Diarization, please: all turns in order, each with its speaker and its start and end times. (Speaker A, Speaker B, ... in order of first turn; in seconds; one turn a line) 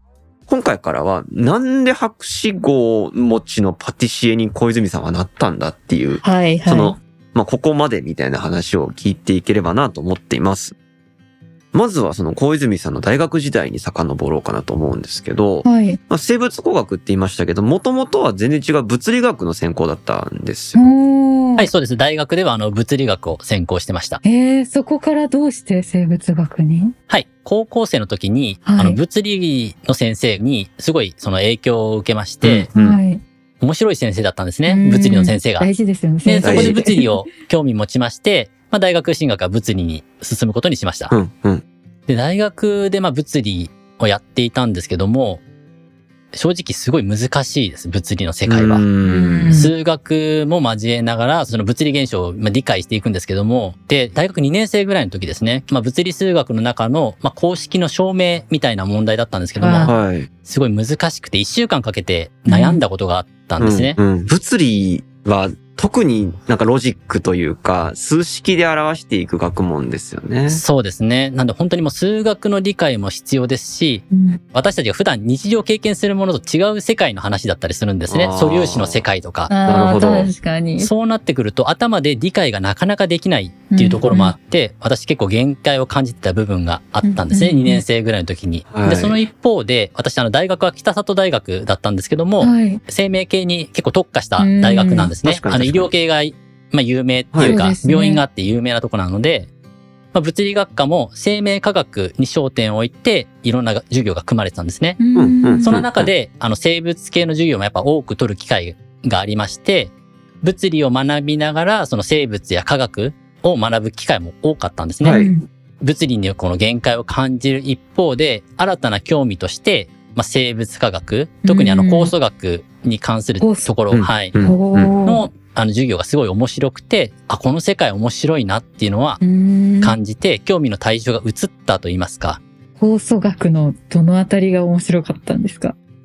Speaker A: 0.5-10.8
Speaker B: 6.2-7.0
Speaker A: 11.7-20.9
Speaker B: 15.6-16.0
Speaker B: 20.7-21.7
Speaker C: 21.6-24.2
Speaker B: 24.2-26.9
Speaker C: 27.1-32.7
Speaker B: 28.7-29.0
Speaker A: 32.4-33.0
Speaker B: 32.7-33.2
Speaker C: 33.6-35.7
Speaker B: 34.7-37.2
Speaker C: 36.2-41.1
Speaker A: 36.4-36.8
Speaker A: 41.1-41.6
Speaker C: 42.1-45.4
Speaker C: 46.3-48.9
Speaker A: 48.5-49.5
Speaker B: 49.0-49.7
Speaker C: 49.5-59.9
Speaker B: 59.6-60.0
Speaker A: 59.9-60.3
Speaker C: 60.5-64.0
Speaker B: 62.5-62.8
Speaker A: 63.6-70.6
Speaker C: 70.5-79.6
Speaker B: 74.1-74.4
Speaker A: 78.1-79.0
Speaker B: 79.5-80.9
Speaker A: 79.6-80.3
Speaker C: 80.8-99.5
Speaker B: 83.7-84.4
Speaker B: 87.0-87.8
Speaker A: 88.7-89.2
Speaker B: 92.4-92.8
Speaker B: 94.4-95.2
Speaker A: 95.2-95.9
Speaker B: 97.4-98.2
Speaker C: 100.1-105.0
Speaker B: 105.0-105.8
Speaker A: 105.2-106.1
Speaker C: 105.6-115.2
Speaker A: 115.0-115.3
Speaker B: 115.1-115.5
Speaker C: 115.8-124.3
Speaker B: 121.5-122.1
Speaker B: 123.4-123.7
Speaker A: 123.9-125.0
Speaker B: 124.4-125.2
Speaker C: 125.0-129.2
Speaker B: 129.2-130.0
Speaker C: 129.8-132.4
Speaker B: 132.8-135.8